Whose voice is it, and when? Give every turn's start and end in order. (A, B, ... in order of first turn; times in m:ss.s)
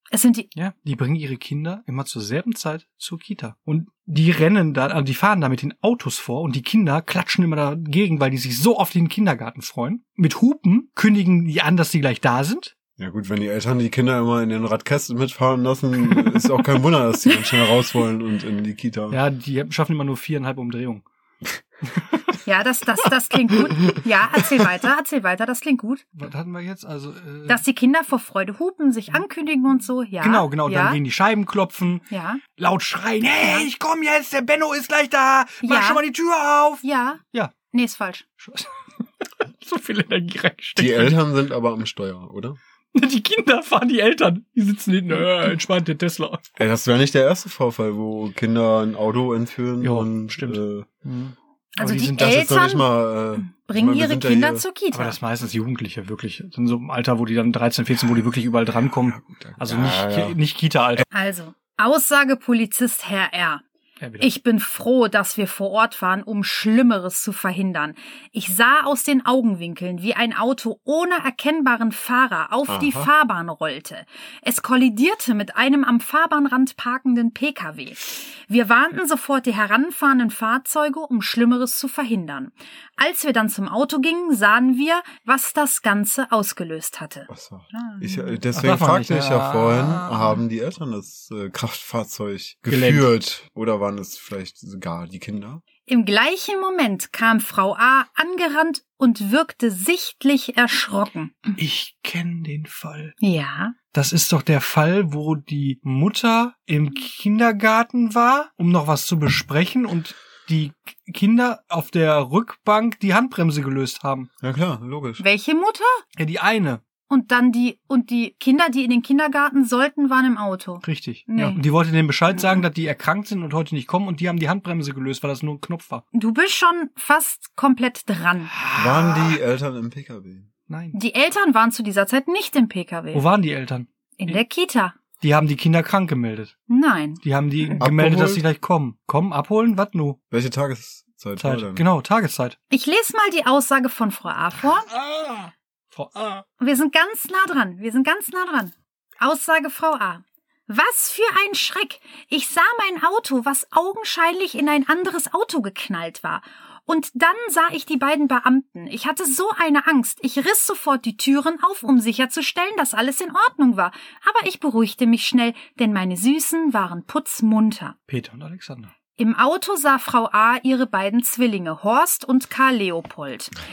0:00.1-0:00.5 A
0:00.5-0:12.7 B
0:13.0-0:19.2 C
0:19.1-0:21.0 B
0:21.9-0:22.3 B
0:22.4-0:26.0 A
0:26.2-0:27.6 B
0:27.5-0:31.0 A
0:30.2-0:32.0 B
0:32.1-0:32.4 A
0:32.6-0:37.5 B
0:33.4-0:33.7 A
0:35.6-0:36.0 A
0:36.8-0:38.2 A
0:38.4-0:38.7 B
0:39.5-0:41.2 B
0:40.8-0:42.6 C
0:42.9-0:46.5 B
0:46.6-0:50.9 C
0:49.8-0:52.4 B
0:51.8-0:55.2 A
0:52.2-0:54.6 C
0:54.9-1:01.0 B
0:58.9-1:00.4 C
1:01.1-1:03.6 A
1:04.0-1:04.3 B
1:04.2-1:28.4 A
1:12.7-1:13.1 C
1:27.3-1:35.6 C
1:28.5-1:30.4 B
1:32.7-1:33.1 B
1:35.8-1:41.6 A
1:41.6-1:43.1 B
1:43.2-1:43.8 A
1:43.9-1:54.3 B
1:54.4-1:55.2 C
1:55.2-1:56.0 A
1:56.2-1:56.8 B
1:57.1-2:01.6 A
2:00.8-2:06.0 B
2:06.1-2:08.5 A
2:08.5-2:09.4 B
2:08.7-2:10.5 C
2:10.7-2:11.0 B
2:10.9-2:13.2 A
2:13.1-2:14.4 B
2:14.2-2:15.0 A
2:15.2-2:16.5 B
2:16.7-2:17.2 A
2:17.2-2:20.2 B
2:17.8-2:18.4 C
2:20.3-2:21.8 C
2:21.4-2:22.6 B
2:22.7-2:24.9 A
2:24.9-2:26.4 B
2:26.6-2:48.0 A
2:48.1-2:48.9 B
2:49.2-2:53.5 A